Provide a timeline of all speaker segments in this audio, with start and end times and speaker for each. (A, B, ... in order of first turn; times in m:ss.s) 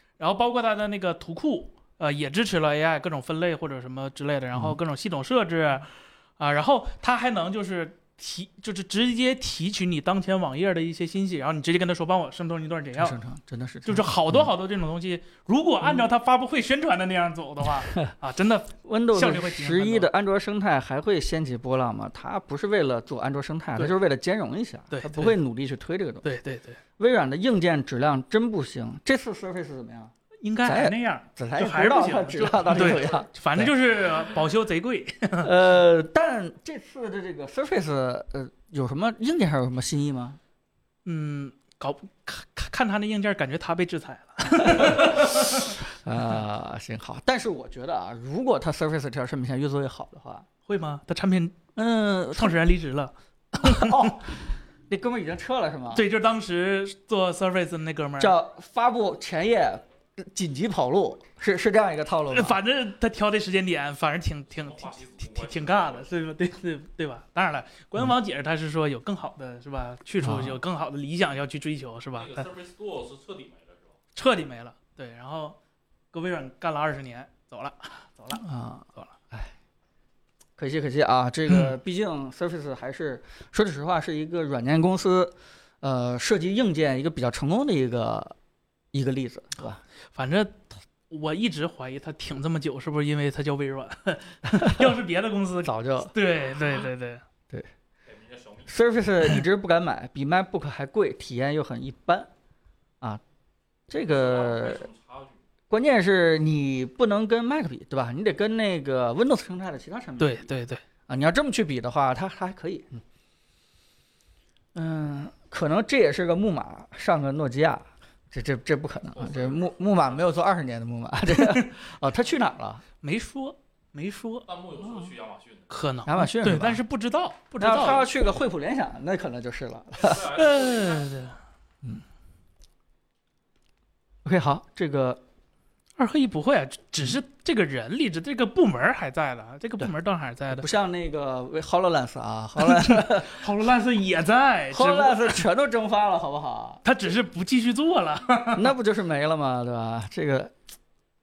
0:00.2-0:13.2 A
0:13.0-0:14.5 B
0:13.8-0:20.1 A
0:18.8-0:26.3 B
0:24.9-0:25.4 A
0:26.2-0:26.8 A
0:27.0-0:30.1 B
0:30.4-0:35.5 A
0:30.6-0:33.7 B
0:35.4-0:40.4 B
0:41.0-0:45.7 A
0:44.6-0:50.5 B
0:50.7-0:51.6 A
0:51.8-0:52.6 B
0:52.4-0:54.1 A
0:53.6-0:56.0 B
0:55.9-0:58.4 A
0:58.2-1:02.6 B
1:02.3-1:12.5 A
1:04.5-1:06.1 C
1:10.2-1:10.6 B
1:12.1-1:14.0 C
1:14.2-1:15.6 A
1:16.1-1:18.4 A
1:18.4-1:19.5 B
1:20.6-1:28.4 B
1:21.5-1:21.7 A
1:28.9-1:29.8 B
1:30.1-1:37.2 A
1:34.6-1:34.9 B
1:35.6-1:36.1 B
1:38.1-1:38.8 C
1:38.7-1:42.3 B
1:43.9-1:44.9 B
1:44.1-1:45.4 C
1:45.7-1:50.5 B
1:50.2-1:50.8 A
1:51.1-1:53.0 B
1:54.8-2:02.8 B
1:59.1-1:59.8 C
2:03.0-2:04.5 A
2:04.5-2:05.7 C
2:05.7-2:08.1 A
2:06.1-2:06.8 B
2:07.6-2:10.3 B
2:10.0-2:11.1 C
2:10.2-2:11.4 A
2:14.2-2:15.2 B
2:16.0-2:20.7 A
2:20.5-2:23.4 B
2:22.6-2:25.4 A
2:24.7-2:26.8 B
2:26.8-2:28.7 A
2:28.5-2:30.5 B